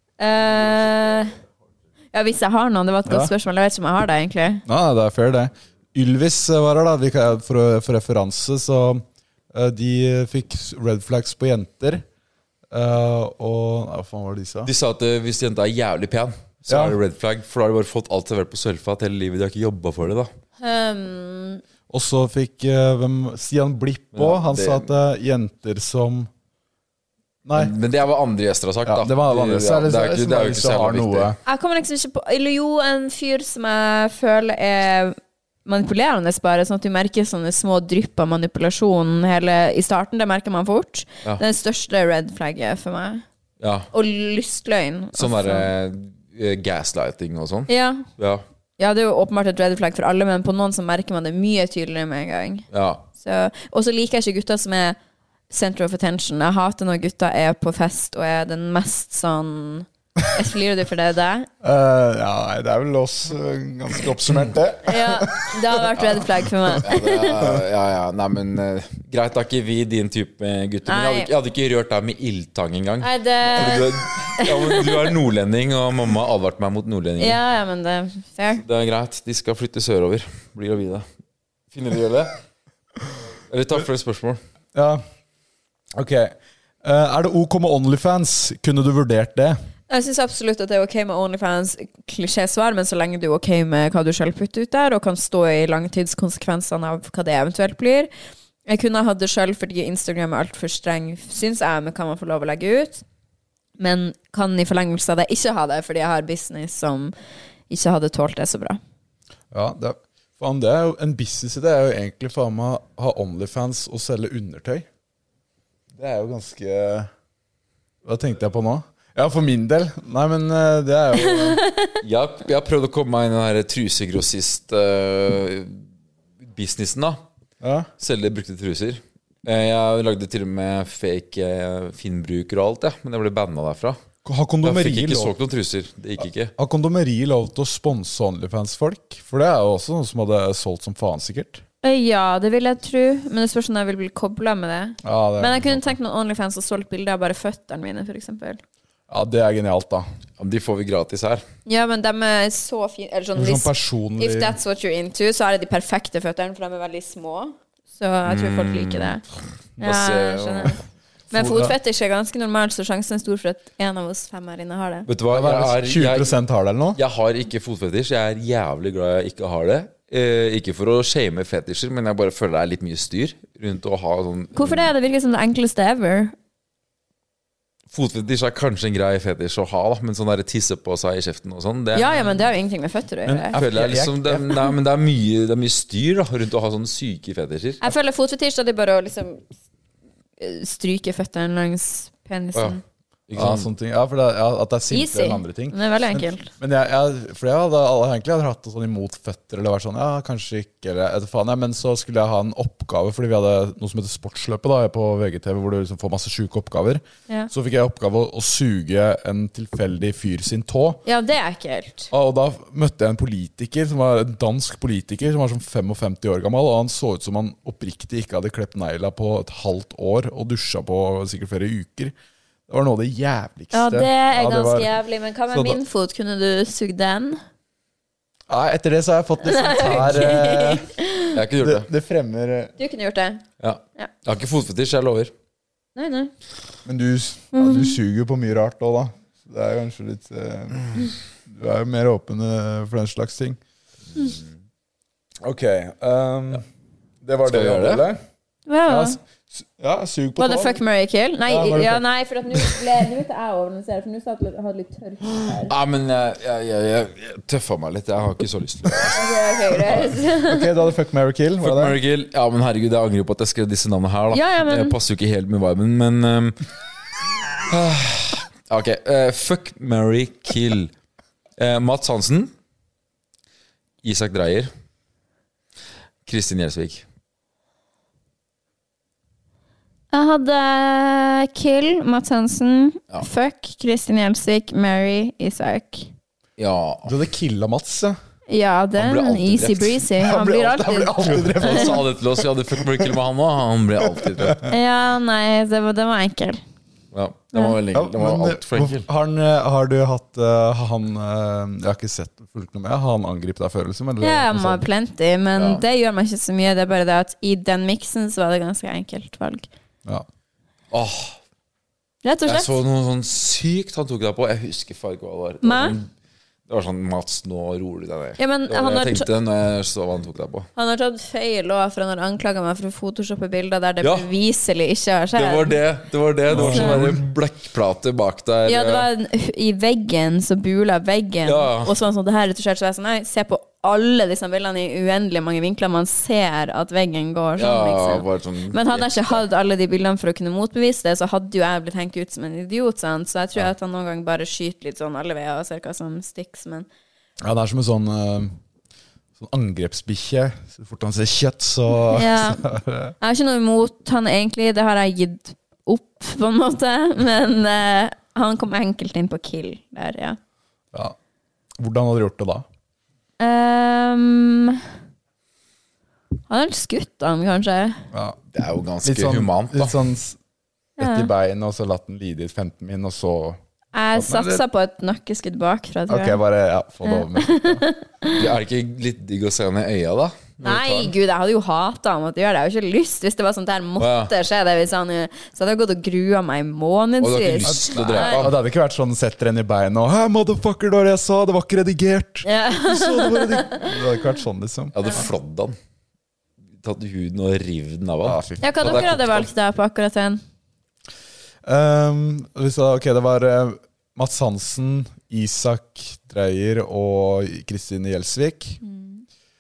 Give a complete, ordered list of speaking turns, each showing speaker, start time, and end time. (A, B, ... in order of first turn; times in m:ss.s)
0:00.2-0:01.3 A
0:02.1-0:04.6 A
0:03.1-0:03.3 B
0:04.7-0:12.0 B
0:12.7-0:14.7 B
0:14.6-0:20.3 C
0:16.7-0:17.0 B
0:20.6-0:21.6 A
0:21.9-0:26.3 B
0:24.1-0:24.9 C
0:27.4-0:27.7 B
0:27.5-0:31.3 C
0:28.8-0:31.4 B
0:31.5-0:43.2 A
0:43.6-0:43.9 C
0:43.9-0:45.7 A
0:45.2-0:48.4 C
0:47.7-0:48.1 A
0:48.8-0:55.0 A
0:52.7-0:53.1 C
0:55.5-1:01.5 A
1:01.6-1:06.8 B
1:04.9-1:07.5 A
1:06.8-1:17.4 C
1:10.9-1:11.3 A
1:13.0-1:15.1 A
1:17.2-1:18.6 A
1:18.6-1:21.0 C
1:21.7-1:22.4 C
1:23.5-1:24.4 C
1:24.8-1:25.0 B
1:26.0-1:29.6 B
1:29.9-1:38.1 A
1:38.7-1:43.0 A
1:43.8-1:47.1 A
1:47.7-1:48.8 A
1:49.5-1:54.9 B
1:55.9-1:57.1 B
1:58.0-2:01.6 B
2:01.2-2:02.0 A
2:02.0-2:05.8 C
2:06.4-2:07.2 C
2:07.6-2:07.9 B
2:08.0-2:14.0 C
2:14.2-2:15.3 B
2:14.6-2:16.5 C
2:16.6-2:21.6 B
2:21.8-2:28.6 A
2:25.0-2:25.9 B
2:29.1-2:30.1 B
2:30.4-2:31.4 C
2:31.7-2:39.2 A
2:33.4-2:34.6 B
2:38.2-2:39.2 C
2:39.8-2:40.8 C
2:39.8-2:45.1 A
2:41.3-2:41.8 B
2:45.1-2:46.3 C
2:45.3-2:47.0 B
2:47.0-2:54.9 C
2:54.6-2:56.4 A
2:57.9-3:02.1 C
3:01.9-3:03.6 A
3:03.2-3:04.6 B
3:03.5-3:07.8 C
3:07.8-3:09.4 A
3:10.4-3:12.8 A
3:12.5-3:13.7 C
3:13.4-3:31.0 B
3:14.9-3:16.5 A
3:31.0-3:32.1 A
3:32.1-3:42.2 B
3:42.7-3:44.9 B
3:43.7-3:47.4 A
3:45.5-3:45.8 B
3:48.5-3:50.9 B
3:49.4-3:51.4 A
3:51.3-3:51.9 C
3:51.6-3:52.7 B
3:52.8-3:53.4 A
3:53.6-3:55.3 C
3:56.0-3:56.3 A
3:56.8-4:03.6 B
3:57.5-3:58.0 A
4:05.4-4:06.6 B
4:07.2-4:08.2 B
4:07.5-4:08.1 C
4:08.7-4:09.2 A
4:08.9-4:10.8 B
4:10.4-4:15.8 A
4:11.5-4:12.0 B
4:15.6-4:19.2 C
4:19.1-4:20.8 A
4:20.5-4:22.0 B
4:21.6-4:26.6 C
4:24.3-4:25.0 A
4:27.7-4:30.9 C
4:31.6-4:32.5 C
4:34.0-4:34.7 C
4:36.2-4:37.0 C
4:40.1-4:46.1 A
4:46.6-4:47.2 C
4:47.0-4:48.2 B
4:48.5-4:52.0 A
4:49.0-4:50.1 C
4:50.2-4:52.1 B
4:51.3-4:54.6 C
4:54.2-4:54.6 B
4:54.7-4:56.6 A
4:57.1-4:59.1 C
4:57.9-5:04.8 B
5:04.2-5:09.7 A
5:05.6-5:05.8 C
5:10.9-5:11.4 C
5:12.2-5:12.8 A
5:12.5-5:16.1 C
5:15.6-5:16.0 A
5:16.7-5:20.7 C
5:18.4-5:19.3 A
5:20.8-5:25.8 A
5:24.0-5:24.3 C
5:25.4-5:29.1 C
5:26.5-5:27.2 B
5:26.5-5:27.2 A
5:28.7-5:46.9 A
5:31.4-5:31.9 C
5:37.6-5:39.4 C
5:47.4-5:48.5 B
5:49.4-5:53.2 B
5:52.1-5:52.6 A
5:53.2-6:00.4 A
6:01.8-6:02.6 B
6:03.4-6:04.8 A
6:06.5-6:08.0 A
6:08.1-6:08.4 B
6:08.5-6:10.0 C
6:09.0-6:10.4 B
6:11.0-6:11.3 A
6:11.0-6:13.6 B
6:13.9-6:16.4 A
6:14.1-6:14.6 B
6:16.1-6:17.8 B
6:17.1-6:18.5 A
6:18.3-6:21.1 C
6:20.6-6:28.5 A
6:24.0-6:24.3 C
6:27.2-6:28.5 C
6:27.6-6:35.0 B
6:32.4-6:34.1 A
6:34.9-6:35.8 C
6:36.8-6:39.5 C
6:38.2-6:39.4 B
6:38.6-6:40.4 A
6:41.6-6:48.8 B
6:48.8-6:49.2 A